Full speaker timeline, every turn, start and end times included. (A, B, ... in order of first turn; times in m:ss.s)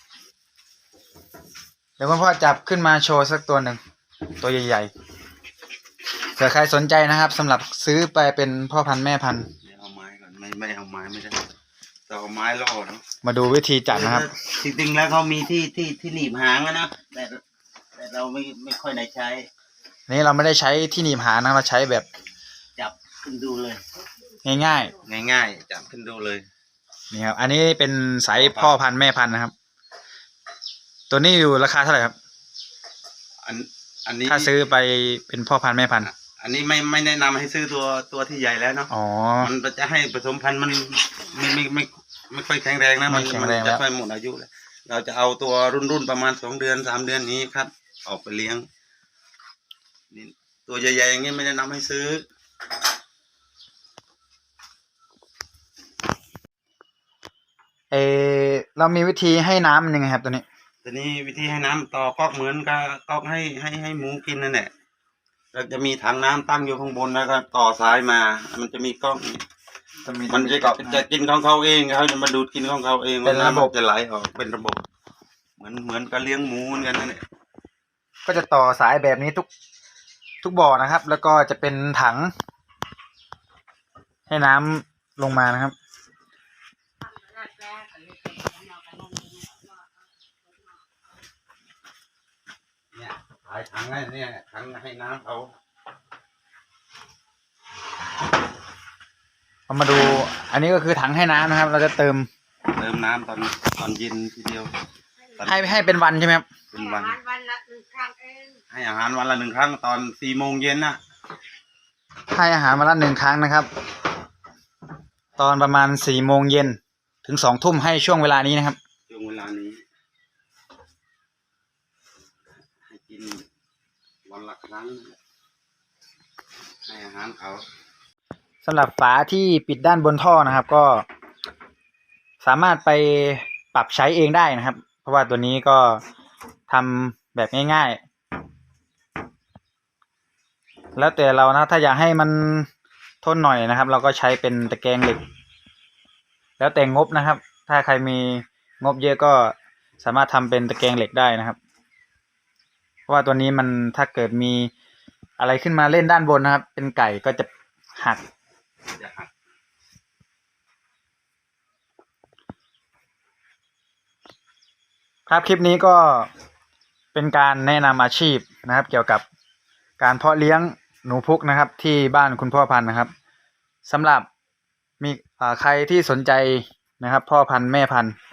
0:02.0-0:03.8 A
0:04.4-0:04.9 A
0:06.4-0:09.5 A
0:09.6-0:11.5 B
0:12.1-0:13.0 B
0:13.2-0:14.2 A
0:13.9-0:17.4 B
0:18.0-0:19.5 B
0:20.1-0:22.1 A
0:22.8-0:23.8 B
0:24.4-0:25.0 A
0:25.0-0:26.5 B
0:27.1-0:29.5 A
0:28.3-0:28.8 B
0:31.1-0:32.2 A
0:33.4-0:34.5 B
0:34.3-0:36.1 A
0:36.0-0:48.7 B
0:38.9-0:39.5 A
0:43.1-0:43.8 A
0:50.1-0:52.2 B
0:57.9-1:00.4 A
1:00.8-1:04.7 B
1:05.5-1:09.4 B
1:10.0-1:11.0 A
1:10.3-1:14.8 B
1:13.2-1:13.7 A
1:15.6-1:17.2 B
1:18.3-1:19.5 A
1:20.4-1:22.3 A
1:24.3-1:25.8 A
1:27.0-1:30.8 C
1:32.9-1:35.5 B
1:39.7-1:42.3 A
1:42.7-1:44.7 B
1:45.4-1:45.9 B
1:45.4-1:46.5 A
1:46.7-1:47.2 B
1:47.2-1:48.6 C
1:48.7-1:51.0 B
1:52.3-1:53.7 A
1:55.4-1:58.8 A
1:59.1-1:59.8 B
2:02.9-2:03.4 B
2:04.2-2:05.2 B
2:06.8-2:07.7 B
2:08.6-2:11.0 A
2:12.4-2:16.0 A
2:16.7-2:18.0 A
2:21.0-2:22.7 A
2:23.2-2:25.2 A
2:26.6-2:31.6 A
2:33.1-2:34.7 A
2:35.4-2:38.2 A
2:39.0-2:39.3 B
2:45.3-2:46.3 A
2:47.1-2:49.2 A
2:50.0-2:53.1 A
2:53.8-2:54.3 A
2:55.0-2:58.2 A